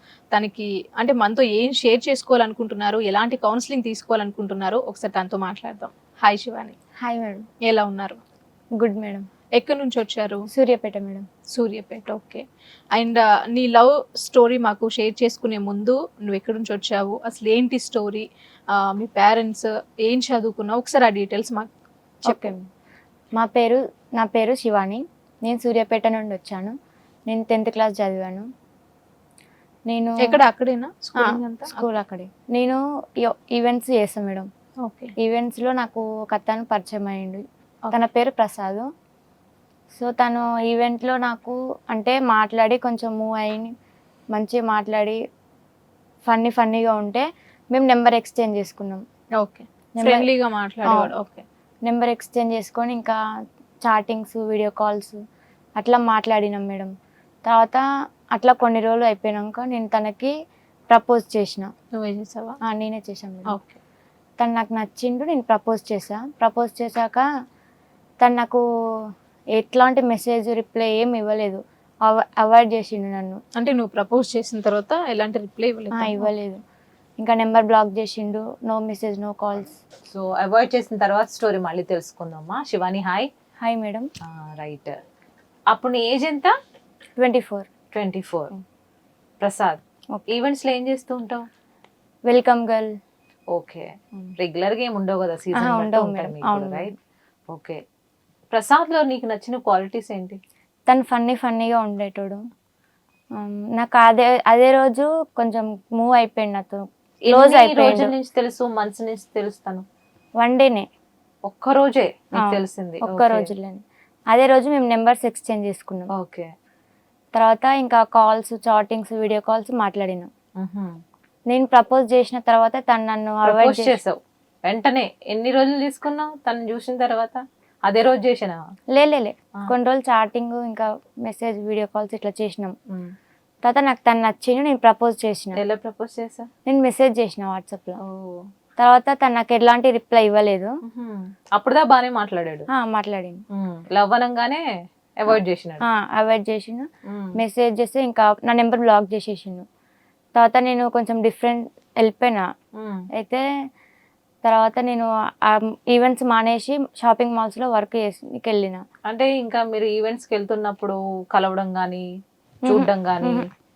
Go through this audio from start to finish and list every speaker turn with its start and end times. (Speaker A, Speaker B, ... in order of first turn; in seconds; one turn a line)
Speaker A: 0.3-6.7
Speaker B: 7.0-7.4
Speaker A: 7.7-8.2
Speaker B: 8.8-9.2
Speaker A: 9.6-10.4
Speaker B: 10.5-11.2
Speaker A: 11.5-21.7
Speaker A: 22.2-22.5
Speaker B: 22.3-22.6
Speaker B: 23.4-26.7
Speaker B: 27.3-28.4
Speaker B: 29.9-30.4
Speaker A: 30.2-31.8
Speaker B: 31.2-34.5
Speaker A: 34.8-35.1
Speaker B: 35.2-38.9
Speaker B: 39.9-43.7
Speaker B: 44.3-45.2
Speaker B: 46.3-49.0
Speaker A: 49.4-51.4
Speaker B: 50.0-50.3
Speaker B: 50.8-51.1
Speaker B: 51.8-53.2
Speaker B: 53.8-55.2
Speaker B: 55.8-56.9
Speaker B: 57.4-57.8
Speaker B: 58.3-60.3
Speaker B: 60.9-61.7
Speaker A: 61.9-62.5
Speaker B: 62.7-63.5
Speaker A: 63.5-63.8
Speaker B: 64.4-67.2
Speaker B: 68.2-68.6
Speaker B: 69.5-73.4
Speaker A: 73.6-76.3
Speaker B: 75.9-76.6
Speaker B: 77.2-79.8
Speaker C: 80.1-83.3
Speaker B: 83.6-84.1
Speaker C: 84.2-85.0
Speaker C: 85.7-86.5
Speaker B: 87.2-87.7
Speaker C: 87.9-88.5
Speaker C: 89.4-91.4
Speaker B: 92.3-92.9
Speaker C: 93.5-96.9
Speaker B: 95.6-96.9
Speaker C: 97.5-97.8
Speaker C: 98.5-100.4
Speaker B: 100.9-102.4
Speaker B: 103.4-108.1
Speaker C: 107.3-109.8
Speaker B: 110.4-110.9
Speaker C: 111.5-113.5
Speaker B: 112.4-116.1
Speaker C: 116.2-116.5
Speaker B: 117.3-120.3
Speaker C: 120.6-120.9
Speaker B: 121.5-124.0
Speaker C: 123.4-128.6
Speaker B: 128.9-132.7
Speaker B: 133.6-135.6
Speaker C: 135.5-136.5
Speaker B: 136.7-138.0
Speaker C: 138.0-138.4
Speaker B: 138.8-140.7
Speaker C: 140.9-142.7
Speaker B: 142.7-143.4
Speaker C: 143.5-144.6
Speaker C: 145.2-145.8
Speaker B: 145.8-146.8
Speaker C: 147.1-147.3
Speaker B: 147.4-149.6
Speaker B: 150.3-152.4
Speaker C: 152.8-153.0
Speaker B: 154.4-158.8
Speaker C: 159.1-162.0
Speaker B: 162.7-163.5
Speaker C: 162.7-163.5